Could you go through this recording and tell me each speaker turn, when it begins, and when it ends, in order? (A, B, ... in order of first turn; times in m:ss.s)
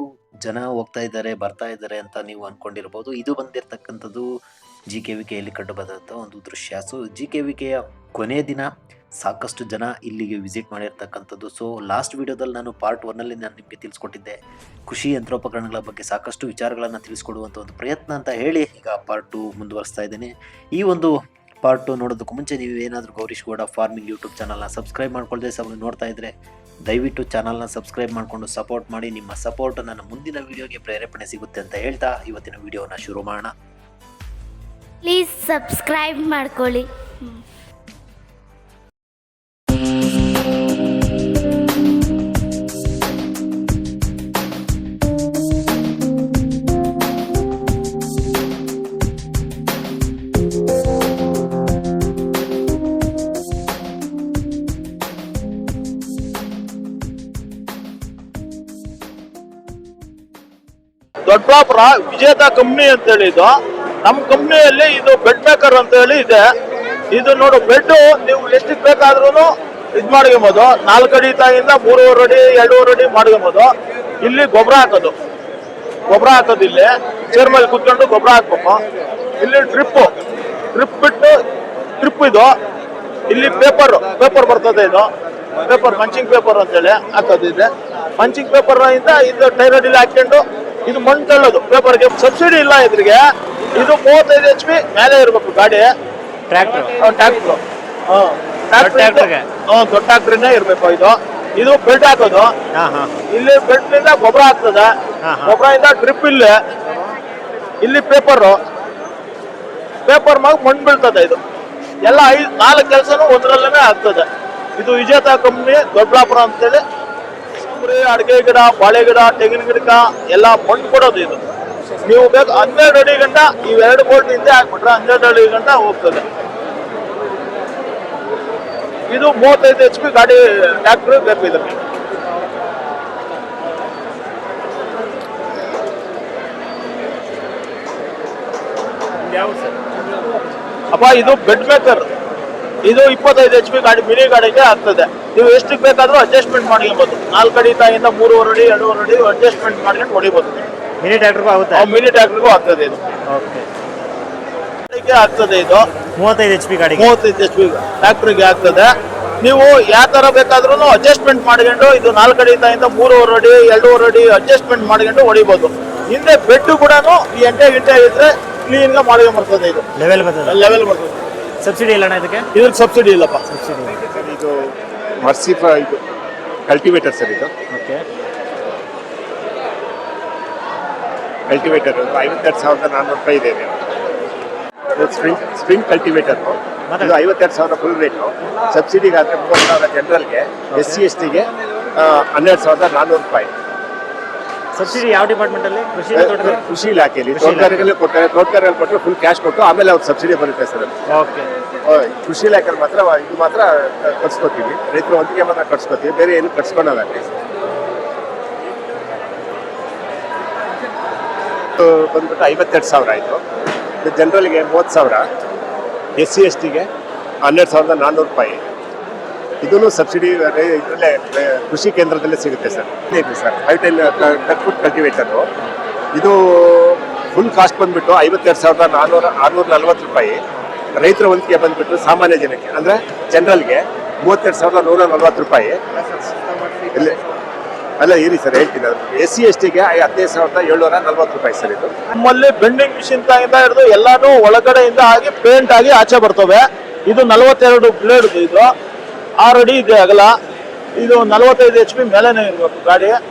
0:00.4-0:04.3 A
0:04.9-0:08.7 A
0:09.2-0:14.4 A
0:14.9-0:21.1 A
0:21.6-0:26.3 A
0:26.9-0:33.5 A
0:35.0-0:37.4 B
1:01.3-1:03.5 C
1:04.0-1:06.4 C
1:07.1-1:13.7 C
1:14.2-1:15.1 C
1:16.1-1:18.8 C
1:19.4-1:20.1 C
1:20.7-1:21.4 C
1:22.0-1:22.5 C
1:23.3-1:25.1 C
1:25.6-1:33.2 C
1:33.7-1:35.9 C
1:36.5-1:36.9 D
1:37.0-1:42.5 C
1:38.8-1:39.5 D
1:42.7-1:43.2 D
1:43.3-1:44.9 C
1:45.2-1:45.6 D
1:45.4-1:46.5 C
1:47.8-1:48.6 C
1:50.1-1:51.4 C
1:52.0-1:54.3 C
1:54.8-1:56.8 C
1:57.8-2:01.4 C
2:02.1-2:06.2 C
2:09.1-2:11.8 C
2:20.9-2:22.0 C
2:22.8-2:30.7 C
2:31.0-2:31.8 D
2:31.7-2:33.0 C
2:33.3-2:33.7 D
2:34.9-2:35.8 C
2:36.2-2:37.1 D
2:37.0-2:38.9 C
2:39.4-2:49.8 C
2:50.0-2:50.6 D
2:50.4-2:51.0 C
2:51.6-2:52.5 D
2:52.5-2:53.4 C
2:53.5-2:54.0 D
2:54.1-2:56.0 E
2:56.7-2:57.5 E
2:57.7-2:58.0 D
3:01.5-3:03.8 E
3:04.9-3:13.5 E
3:06.9-3:07.2 D
3:10.7-3:11.0 D
3:14.8-3:16.6 D
3:16.1-3:20.9 E
3:17.3-3:17.9 D
3:21.1-3:21.5 D
3:21.8-3:27.2 E
3:31.8-3:33.4 E
3:34.0-3:35.3 E
3:36.2-3:36.9 E
3:37.4-3:38.6 E
3:39.6-3:45.5 E
3:46.2-3:50.4 E
3:51.0-3:55.8 E
3:58.0-4:01.9 E
4:02.1-4:08.7 C
4:09.4-4:10.3 C
4:11.0-4:13.2 C